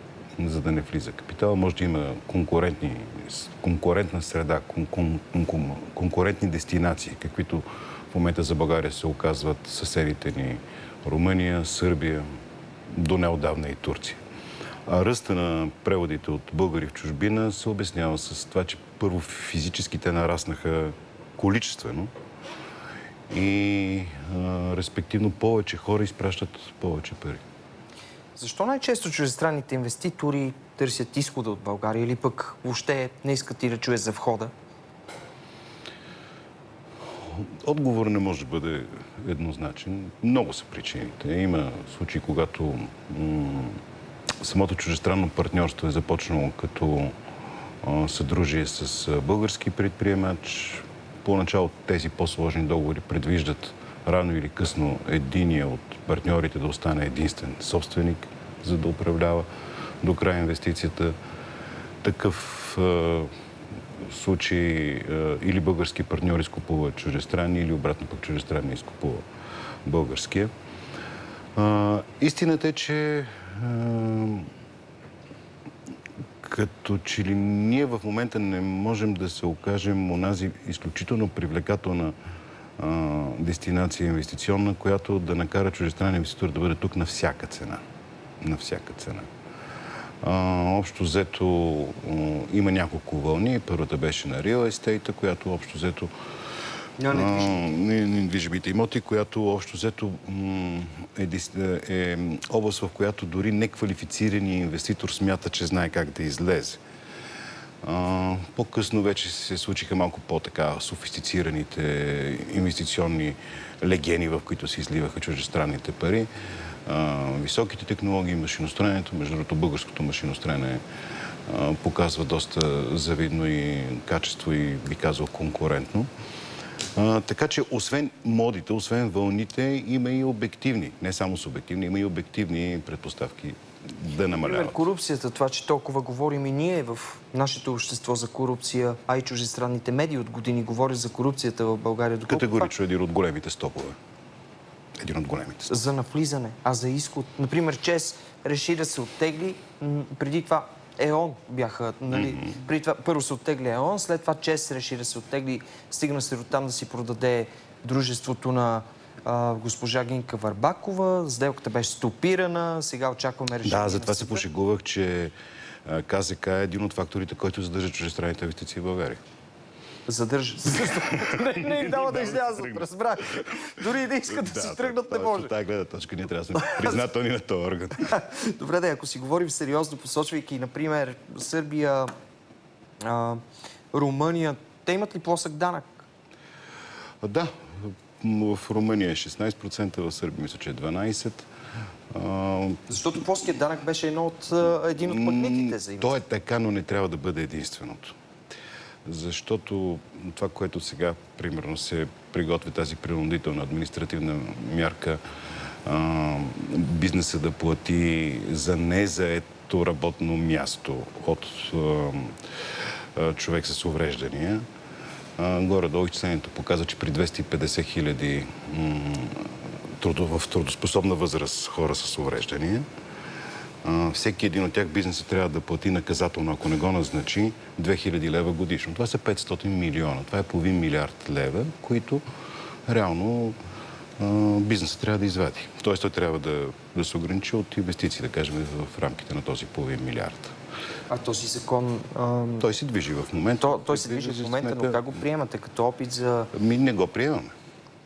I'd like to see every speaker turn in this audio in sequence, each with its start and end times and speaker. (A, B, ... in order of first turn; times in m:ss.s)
0:00.4-0:12.3 A
0:12.9-0:14.2 A
0:14.8-0:22.1 A
0:23.3-0:27.4 A
0:28.4-0:34.5 B
0:37.2-0:43.8 A
0:44.4-0:47.2 A
0:47.8-0:59.5 A
1:00.0-1:01.2 A
1:02.0-1:03.3 A
1:04.0-1:09.2 A
1:09.8-1:10.5 A
1:11.5-1:14.5 A
1:16.4-1:22.2 A
1:22.8-1:27.8 A
1:28.4-1:29.3 A
1:30.2-1:36.1 A
1:37.0-1:37.7 B
1:37.1-1:46.8 A
1:47.8-1:56.3 A
1:56.8-2:00.8 A
2:01.5-2:06.1 A
2:06.9-2:14.8 A
2:14.4-2:22.7 B
2:22.3-2:24.0 A
2:25.0-2:25.8 A
2:25.7-2:44.4 B
2:32.1-2:32.4 A
2:43.6-2:45.3 A
2:45.8-2:49.2 A
2:50.1-2:55.5 B
2:51.5-2:52.8 A
2:54.3-2:58.1 A
2:58.1-3:02.1 B
3:03.0-3:03.4 B
3:03.9-3:06.0 B
3:07.2-3:11.5 A
3:12.1-3:12.9 A
3:12.9-3:16.1 B
3:15.0-3:18.1 A
3:19.0-3:25.2 A
3:25.8-3:32.4 A
3:33.2-3:34.6 A
3:35.4-3:42.8 A
3:43.8-3:52.2 A
3:52.9-3:53.6 A
3:54.2-4:00.5 A
4:01.1-4:02.7 B
4:02.6-4:05.0 A
4:03.6-4:06.5 B
4:06.5-4:07.5 A